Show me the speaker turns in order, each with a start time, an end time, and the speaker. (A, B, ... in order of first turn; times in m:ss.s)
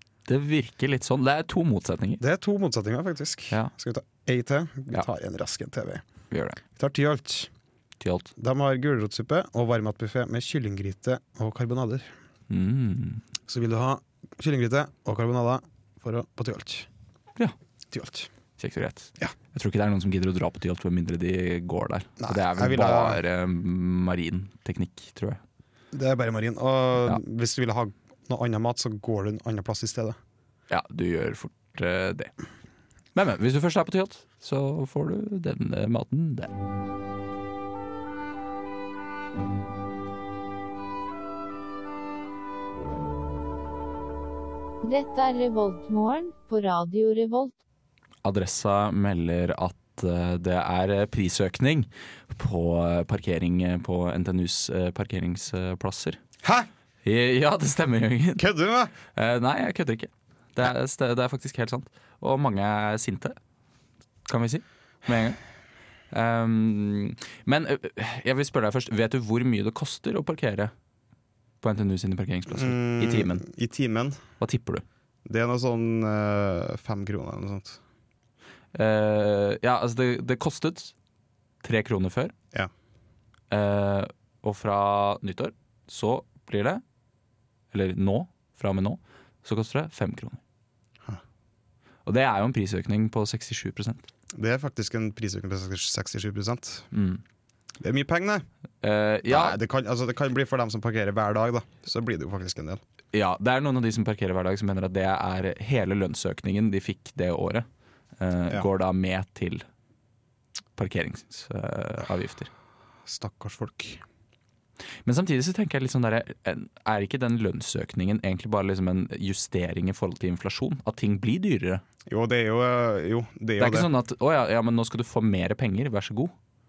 0:00.3-0:02.2 A
0:02.2-0:06.0 B
0:06.3-0:06.6 A
0:06.7-0:07.5 B
0:08.0-0:08.3 A
0:08.4-0:12.1 B
0:12.5-0:13.2 A
0:13.5-0:16.9 B
0:17.9-0:18.3 B
0:18.6-0:25.4 A
0:22.2-0:23.2 B
0:25.9-0:30.2 B
0:30.7-0:32.3 A
0:33.1-0:36.5 A
0:44.8-0:47.5 C
0:48.2-0:56.2 A
0:56.4-0:56.7 B
0:57.0-0:58.4 A
0:58.4-0:58.9 B
0:59.1-1:03.4 A
1:04.3-1:05.4 A
1:06.1-1:10.7 A
1:11.6-1:13.5 A
1:12.5-1:14.2 B
1:14.4-1:14.8 A
1:15.2-1:17.8 B
1:18.7-1:20.9 A
1:21.6-1:22.4 A
1:23.5-1:26.8 A
1:27.7-1:30.4 A
1:32.1-1:34.1 A
1:34.3-1:36.9 B
1:36.9-1:37.2 A
1:37.8-1:38.5 B
1:38.8-1:39.6 A
1:39.3-1:42.8 B
1:43.1-1:47.7 A
1:48.2-1:49.6 A
1:50.8-1:52.5 A
1:53.1-1:54.0 B
1:55.0-2:01.8 A
2:02.1-2:03.9 B
2:03.6-2:06.3 A